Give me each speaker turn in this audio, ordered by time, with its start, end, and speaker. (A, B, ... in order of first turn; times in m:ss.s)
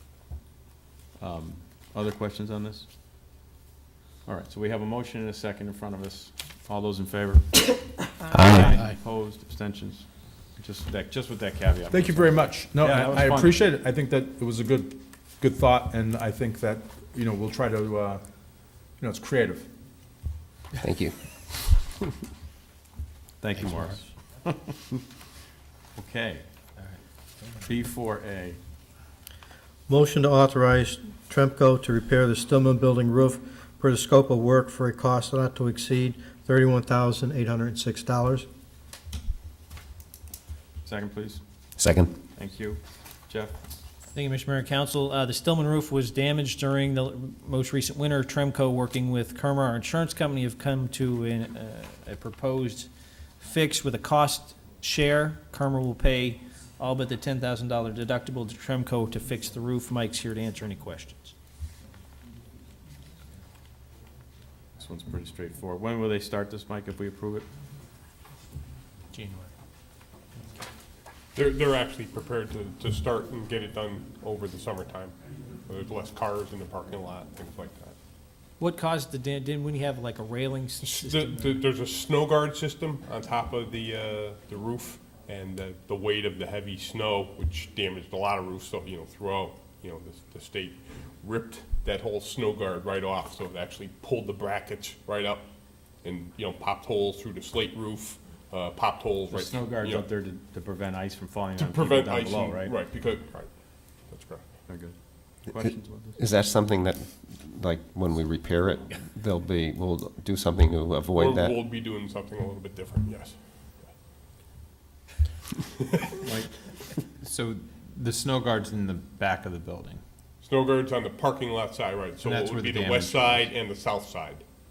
0:01.2-0:02.9 A
0:04.2-0:07.8 A
0:08.3-0:08.7 B
0:08.4-0:13.6 A
0:11.9-0:18.3 C
0:19.0-0:19.7 C
0:20.8-0:21.9 B
0:23.4-0:24.8 A
0:26.0-0:26.4 A
0:27.6-0:28.6 A
0:29.9-0:38.5 D
0:40.8-0:41.4 A
0:41.8-0:42.1 B
0:42.3-0:43.6 A
0:44.1-1:01.3 E
1:04.8-1:07.5 A
1:09.1-1:09.5 E
1:11.3-1:17.9 F
1:18.6-1:21.6 E
1:20.8-1:35.4 F
1:36.0-1:40.1 F
1:39.3-1:42.8 A
1:41.6-1:44.7 F
1:44.7-1:46.2 A
1:46.2-1:51.6 B
1:51.2-1:53.9 F
1:56.2-1:56.6 A
1:57.2-2:00.0 G
2:00.4-2:04.4 F
2:02.2-2:03.5 G